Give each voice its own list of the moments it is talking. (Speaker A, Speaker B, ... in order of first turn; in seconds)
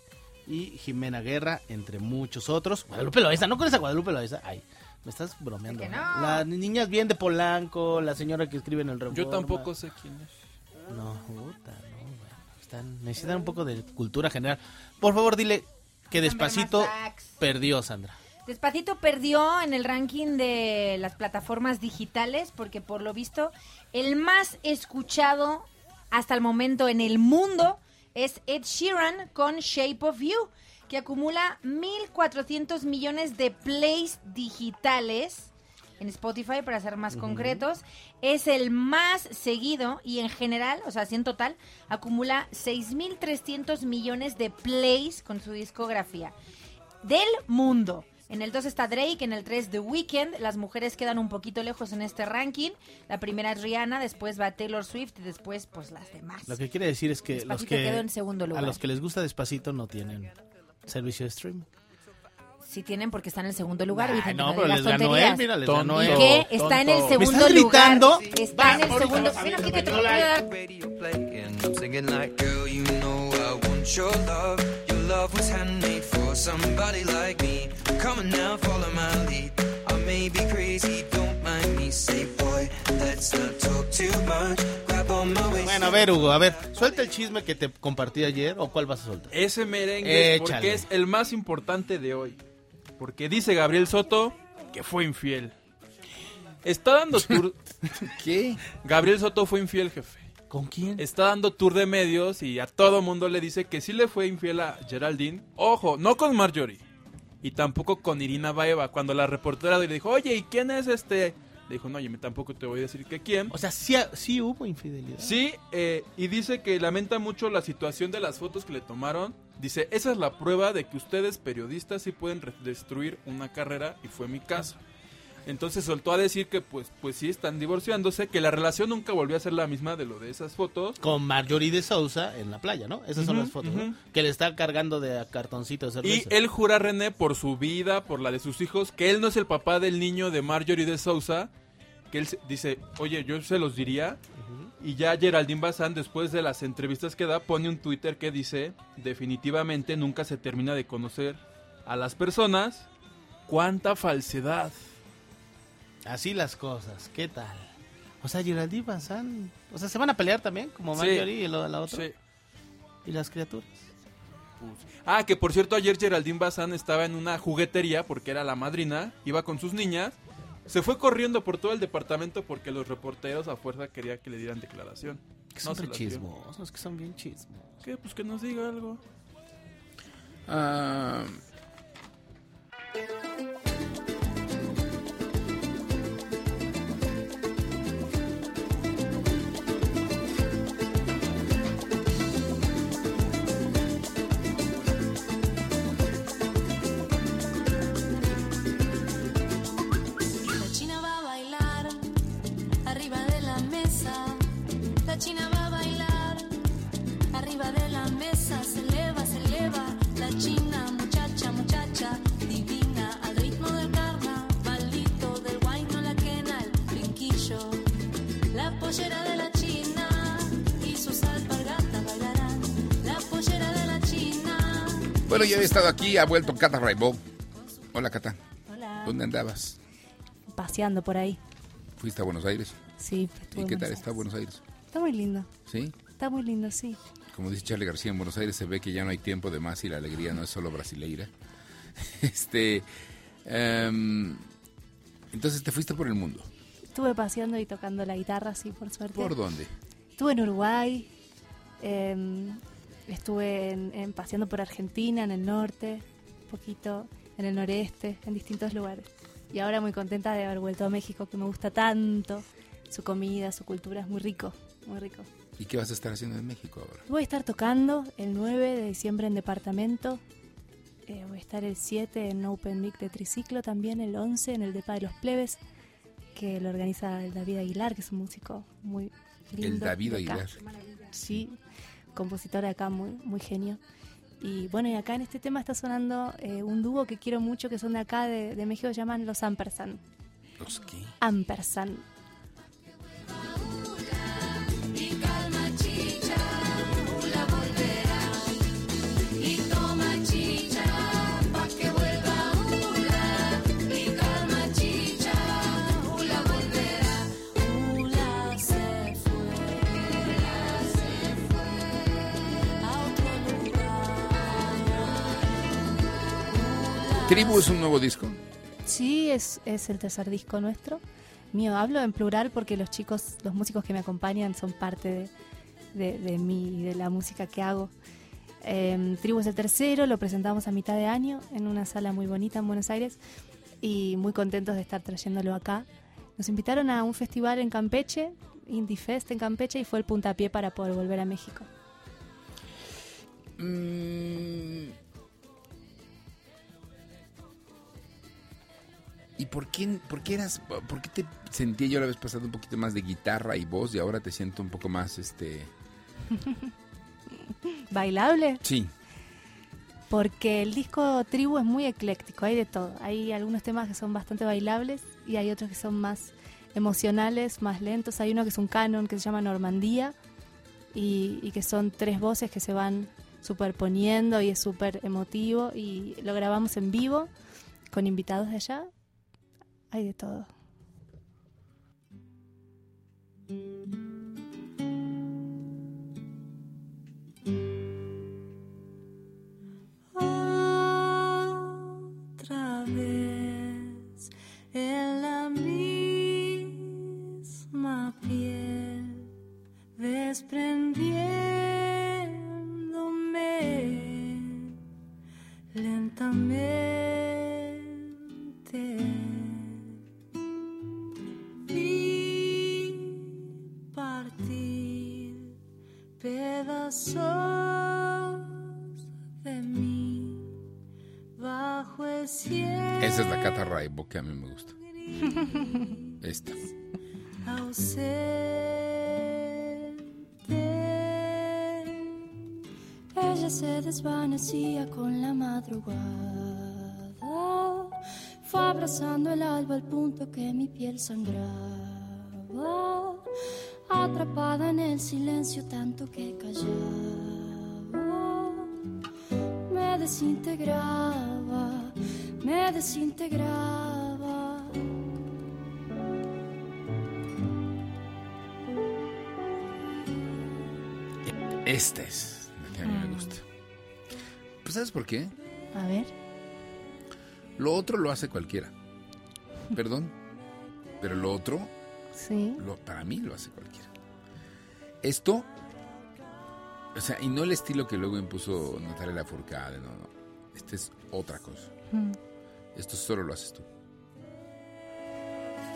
Speaker A: 0.5-9.7, 10.9-18.2, 37.1-37.6, 56.5-60.3, 60.9-61.7, 63.9-70.4, 85.6-89.3, 90.0-90.9, 100.5-101.1, 113.5-115.4, 131.0-136.4, 144.4-144.7, 156.1-157.7, 158.2-162.1, 163.1-163.8, 175.6-177.7
Speaker B: 5.7-6.5, 16.1-17.4, 18.5-46.3, 47.0-56.6, 57.3-58.8, 62.6-65.5, 66.0-70.5
Speaker C: 9.1-10.3, 65.6-67.3, 89.3-92.4, 93.0-95.5, 96.6-97.6, 98.8-100.3, 101.0-106.8, 107.4-113.5, 115.2-124.8, 125.5-131.0, 133.2-134.0, 136.0-141.5, 142.1-144.2, 144.8-152.9, 153.5-154.8, 161.0-161.3, 161.9-162.2, 164.6-170.2, 170.7-176.2, 177.8-179.0
Speaker D: 67.7-69.3, 70.4-86.1
Speaker E: 98.0-98.6, 180.5-181.4, 225.2-227.2, 227.9-228.4, 229.0-229.8, 232.0-232.8, 233.5-234.6, 235.7-236.0, 237.3-241.3, 242.0-242.9, 243.4-244.4, 245.3-246.5, 249.1-249.7, 265.6-267.0, 279.6-280.6, 290.6-291.2, 317.2-318.4, 343.6-344.9, 349.4-355.7, 358.6-358.9, 423.0-424.7, 426.2-426.6, 461.6-463.4, 464.6-465.3, 467.6-468.7, 469.7-470.1, 471.0-471.7, 472.6-473.9, 475.0-475.5, 476.9-481.7, 482.8-483.7
Speaker F: 200.5-201.9, 202.9-203.9, 228.7-229.2, 230.5-231.4, 233.0-234.1, 234.9-235.5, 236.2-237.0, 246.9-249.3, 250.2-251.1, 251.8-265.3, 267.1-270.2, 271.1-275.6, 276.4-280.5, 281.1-281.6, 282.1-283.8, 284.4-290.0, 291.2-292.0, 318.9-325.3, 325.9-327.9, 328.6-333.2, 333.8-335.9, 336.4-341.7, 357.9-358.6, 360.1-370.1, 370.9-377.3, 377.9-378.9, 379.9-380.5, 409.4-409.8, 462.9-463.3, 465.7-466.1, 472.2-472.6
Speaker G: 201.2-201.4, 203.5-204.0, 208.2-209.2, 210.9-211.2, 216.4-216.8, 219.1-219.9, 223.4-224.6, 313.3-313.6, 316.5-317.5, 390.1-391.2, 392.4-394.1, 394.7-396.6, 397.7-399.2, 400.0-402.0, 402.7-404.5, 405.7-407.5, 408.7-409.5, 411.7-413.0, 413.9-415.4, 416.2-418.4, 419.4-420.5, 421.4-423.7, 425.3-426.2, 427.5-429.2, 430.5-431.6, 433.1-437.9, 438.5-443.2, 443.9-448.7, 449.7-454.7